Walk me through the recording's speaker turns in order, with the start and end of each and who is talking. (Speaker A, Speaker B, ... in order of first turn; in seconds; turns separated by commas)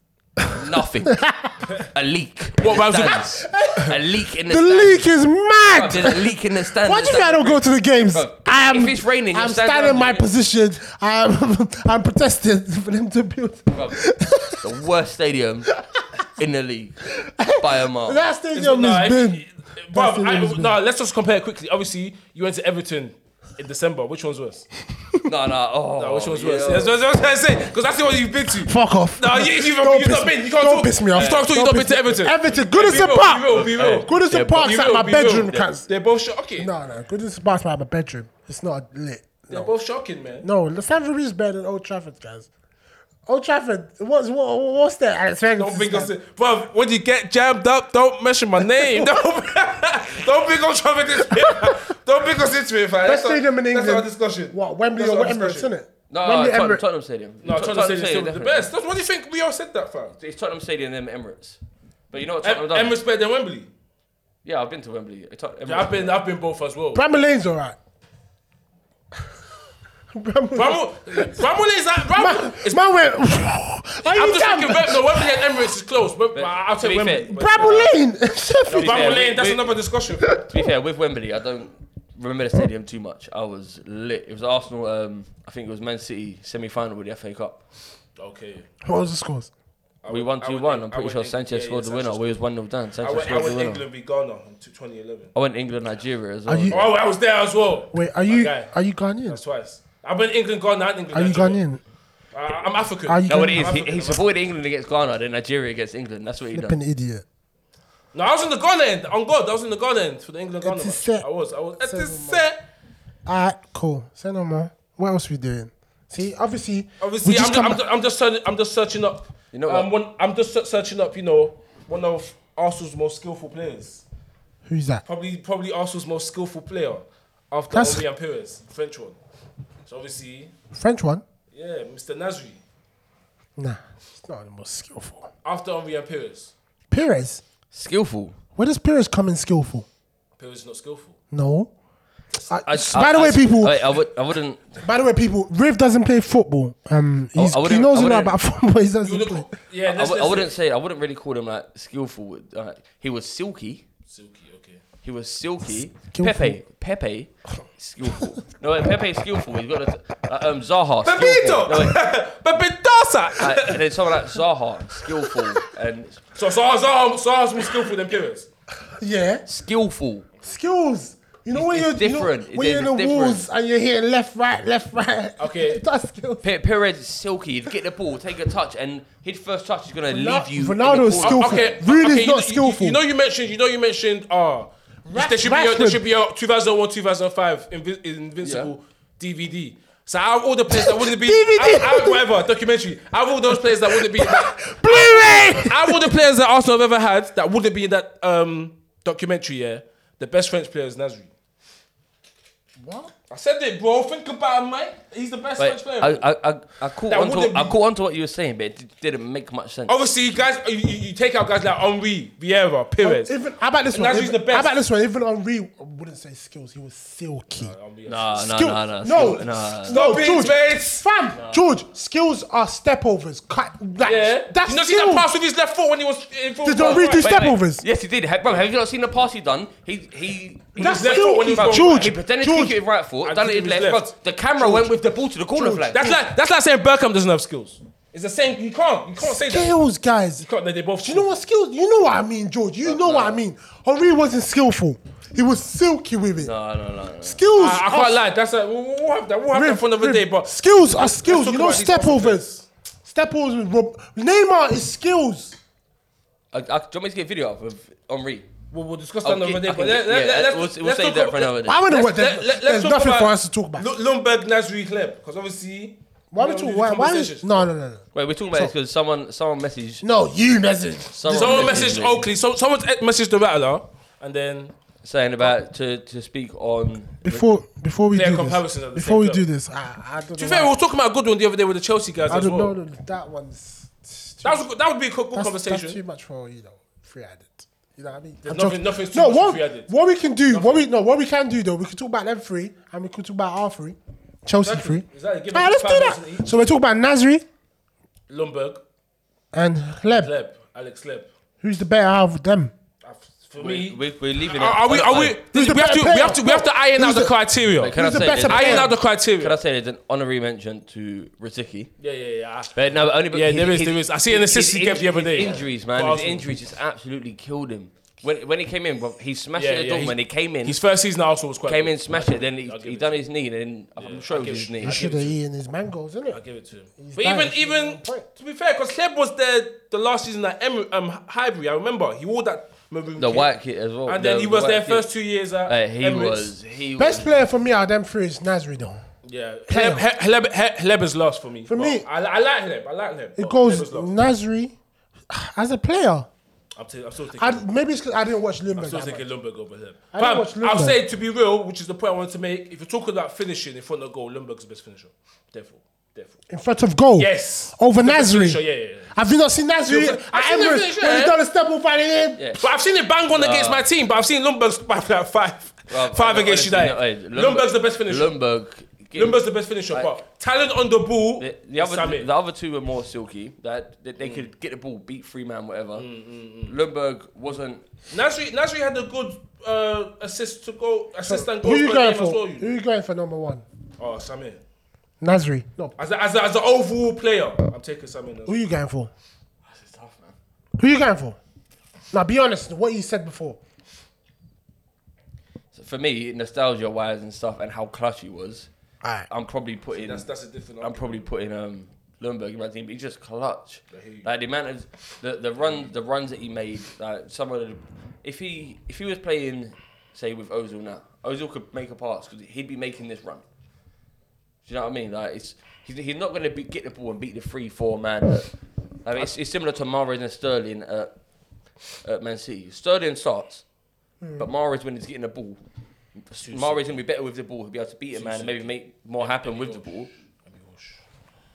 Speaker A: 0.4-1.7, Speaker B: 0.5-1.2, Speaker B: 1.7-5.1, Speaker C: 2.6-3.4, Speaker A: 2.9-14.7, Speaker B: 5.7-10.3, Speaker B: 13.7-14.0, Speaker B: 14.6-18.2, Speaker A: 17.1-20.8, Speaker C: 18.5-24.7, Speaker B: 25.2-26.9, Speaker C: 26.0-36.7, Speaker A: 28.6-35.9, Speaker B: 31.1-31.5, Speaker B: 33.6-34.8, Speaker A: 36.6-39.7, Speaker C: 39.5-40.5, Speaker A: 40.4-42.5, Speaker A: 43.3-46.1, Speaker C: 45.6-55.7, Speaker A: 48.8-49.1, Speaker A: 51.4-51.8, Speaker A: 53.0-56.8, Speaker B: 56.1-58.7, Speaker C: 57.4-60.2, Speaker B: 60.2-61.6, Speaker B: 62.1-63.0, Speaker C: 62.4-63.7, Speaker B: 64.5-66.2, Speaker C: 65.7-67.0, Speaker A: 67.0-67.8, Speaker A: 70.1-71.4, Speaker C: 70.5-72.8, Speaker A: 72.1-75.4, Speaker C: 74.0-77.9, Speaker B: 76.3-77.8, Speaker A: 77.3-79.2, Speaker C: 78.7-80.4, Speaker B: 78.7-79.7, Speaker B: 80.4-87.6, Speaker C: 88.2-88.7, Speaker A: 88.8-89.5, Speaker C: 90.0-92.3, Speaker B: 90.1-93.8, Speaker C: 93.0-95.3, Speaker B: 95.3-96.9, Speaker A: 96.5-96.8, Speaker C: 96.7-98.7, Speaker A: 97.9-99.4, Speaker C: 99.3-101.6, Speaker A: 101.1-101.8, Speaker C: 102.3-104.2, Speaker A: 103.1-103.8, Speaker B: 103.3-106.8, Speaker A: 106.5-107.2, Speaker C: 108.1-112.6, Speaker A: 110.6-111.3, Speaker A: 111.8-112.4, Speaker A: 113.3-117.8, Speaker C: 117.0-124.0, Speaker B: 119.5-119.9, Speaker A: 124.7-125.0, Speaker C: 125.1-129.2, Speaker A: 127.7-128.1, Speaker C: 129.8-130.5, Speaker A: 130.7-131.2, Speaker C: 131.5-132.6, Speaker A: 133.6-135.3, Speaker C: 135.4-136.5, Speaker A: 136.9-137.4, Speaker B: 137.7-138.4, Speaker A: 138.6-139.9, Speaker C: 140.4-141.2, Speaker A: 141.3-141.7, Speaker A: 142.5-143.9, Speaker B: 142.7-144.8, Speaker A: 144.8-149.5, Speaker B: 147.4-148.3, Speaker C: 149.0-150.5, Speaker B: 149.9-153.8, Speaker C: 154.1-154.8, Speaker B: 155.0-162.0, Speaker A: 156.1-156.6, Speaker C: 161.0-163.8, Speaker B: 163.4-166.2, Speaker C: 166.3-168.5, Speaker A: 168.8-169.4, Speaker B: 169.5-170.3, Speaker A: 170.4-176.5, Speaker B: 171.6-173.4, Speaker C: 175.4-175.8, Speaker B: 176.4-181.7, Speaker A: 180.1-183.0, Speaker C: 181.2-201.3, Speaker A: 185.1-186.0, Speaker B: 188.4-188.7, Speaker A: 190.7-192.2, Speaker A: 193.5-196.1, Speaker A: 202.8-203.1, Speaker C: 203.3-206.2, Speaker B: 205.6-210.0, Speaker C: 207.1-207.8, Speaker C: 209.9-213.3, Speaker A: 213.0-217.8, Speaker C: 213.9-214.8, Speaker C: 217.6-218.5, Speaker B: 218.1-220.0, Speaker A: 218.4-225.3, Speaker C: 219.9-221.6, Speaker C: 224.0-227.4, Speaker A: 226.6-227.8, Speaker B: 227.2-236.0, Speaker C: 230.8-232.1, Speaker A: 230.8-232.8, Speaker C: 233.2-234.1, Speaker A: 234.6-234.9, Speaker A: 235.5-236.2, Speaker C: 235.9-239.8, Speaker A: 239.2-240.5, Speaker C: 240.4-241.4, Speaker A: 241.0-246.5, Speaker C: 242.9-243.4, Speaker B: 246.4-247.4, Speaker A: 247.2-248.2, Speaker C: 247.6-252.6, Speaker A: 249.5-255.6, Speaker B: 256.5-258.5, Speaker C: 258.7-267.7, Speaker B: 259.2-261.8, Speaker A: 261.6-263.9, Speaker A: 266.3-268.7, Speaker B: 268.1-270.1, Speaker A: 270.0-272.0, Speaker B: 271.2-272.3, Speaker C: 271.3-274.7, Speaker B: 275.0-277.5, Speaker A: 277.2-280.7, Speaker C: 278.1-279.5, Speaker C: 280.4-282.7, Speaker A: 282.3-284.7, Speaker C: 284.4-286.0, Speaker A: 285.3-297.4, Speaker C: 288.4-289.9, Speaker C: 290.5-290.8, Speaker C: 294.6-296.7, Speaker C: 298.3-298.8, Speaker A: 299.5-300.3, Speaker C: 300.1-301.3, Speaker A: 301.6-302.7, Speaker C: 303.0-304.0, Speaker B: 303.6-305.4, Speaker C: 304.5-307.9, Speaker A: 305.5-307.4, Speaker B: 307.8-311.9, Speaker A: 307.9-308.9, Speaker C: 308.5-309.6, Speaker C: 312.0-312.7, Speaker B: 312.8-320.8, Speaker C: 313.3-316.5, Speaker C: 319.6-323.2, Speaker B: 321.7-325.2, Speaker C: 324.0-325.3, Speaker A: 324.8-326.4, Speaker C: 326.3-333.5, Speaker A: 327.0-328.3, Speaker B: 333.2-335.1, Speaker C: 334.1-336.5, Speaker B: 335.7-337.3, Speaker A: 337.0-339.0, Speaker C: 339.2-344.1, Speaker A: 339.7-340.0, Speaker A: 341.7-342.1, Speaker A: 343.4-344.8, Speaker A: 345.3-346.3, Speaker C: 346.8-347.6, Speaker A: 347.4-349.3, Speaker C: 348.8-356.4, Speaker A: 350.1-351.0, Speaker A: 356.5-362.4, Speaker C: 357.2-359.1, Speaker C: 359.9-361.4, Speaker B: 362.4-362.7, Speaker C: 362.6-368.3, Speaker B: 363.3-363.9, Speaker B: 365.9-369.4, Speaker C: 369.1-372.3, Speaker B: 371.4-376.1, Speaker C: 374.2-374.5, Speaker C: 375.9-376.7, Speaker B: 376.7-377.8, Speaker C: 378.1-382.8, Speaker A: 381.2-383.6, Speaker C: 384.0-384.6, Speaker A: 385.2-386.0, Speaker C: 386.0-388.6, Speaker A: 388.5-389.1, Speaker B: 389.7-390.3, Speaker A: 390.8-391.4, Speaker A: 392.1-393.6, Speaker B: 395.7-398.7, Speaker A: 399.0-399.3, Speaker B: 399.3-400.3, Speaker C: 399.9-401.2, Speaker B: 400.8-413.4, Speaker C: 403.9-404.3, Speaker B: 414.6-418.5, Speaker B: 419.0-421.1, Speaker B: 422.0-423.6, Speaker A: 424.2-424.5, Speaker B: 424.4-425.6, Speaker B: 426.3-430.1, Speaker C: 426.4-426.9, Speaker C: 428.1-429.9, Speaker C: 430.5-431.0